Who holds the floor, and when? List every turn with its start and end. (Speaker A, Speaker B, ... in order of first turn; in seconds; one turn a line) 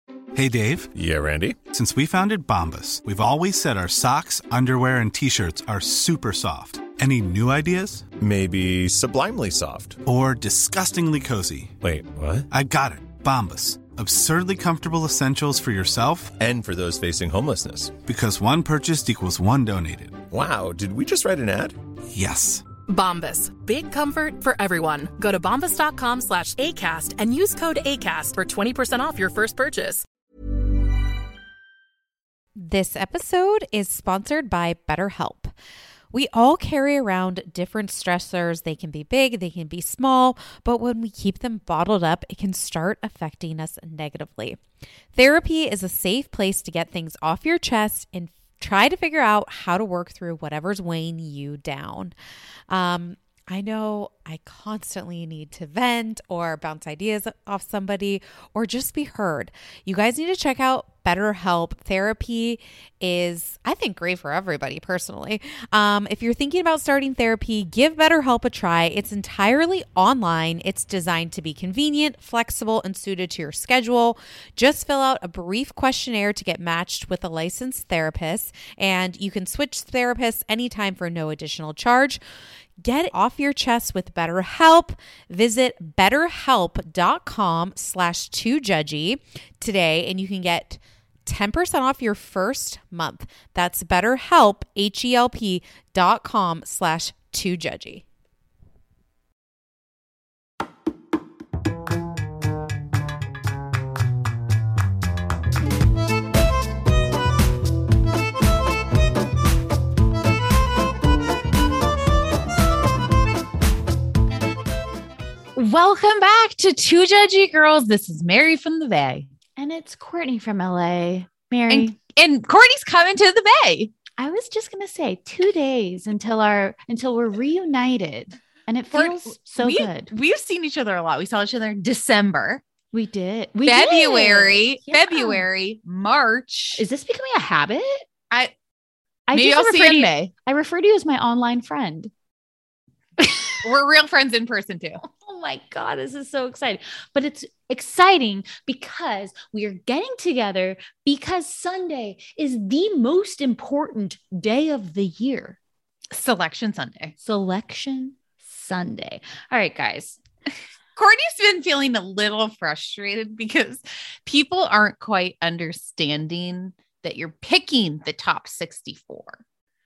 Speaker A: 0.3-0.9
Speaker B: 0.9-1.6
Speaker A: 1.7-8.1
Speaker B: 8.2-10.0
Speaker A: 10.0-11.8
Speaker B: 11.8-12.5
Speaker A: 12.5-16.3
Speaker B: 16.4-17.9
Speaker A: 18.0-20.2
Speaker B: 20.3-21.8
Speaker A: 22.1-22.6
Speaker C: 22.9-30.0
Speaker D: 32.5-35.5
Speaker D: 36.1-44.6
Speaker D: 45.1-52.1
Speaker D: 52.7-82.2
Speaker D: 82.8-98.0
Speaker E: 115.5-119.3
Speaker F: 119.6-121.9
Speaker E: 121.7-123.9
Speaker F: 124.2-130.1
Speaker E: 128.9-132.6
Speaker F: 132.9-135.4
Speaker E: 133.7-136.8
Speaker F: 136.8-138.0
Speaker F: 139.3-142.1
Speaker E: 139.3-140.3
Speaker F: 143.2-143.6
Speaker E: 143.6-145.0
Speaker F: 145.0-155.6
Speaker E: 156.1-157.1
Speaker F: 157.2-160.2
Speaker E: 160.9-169.4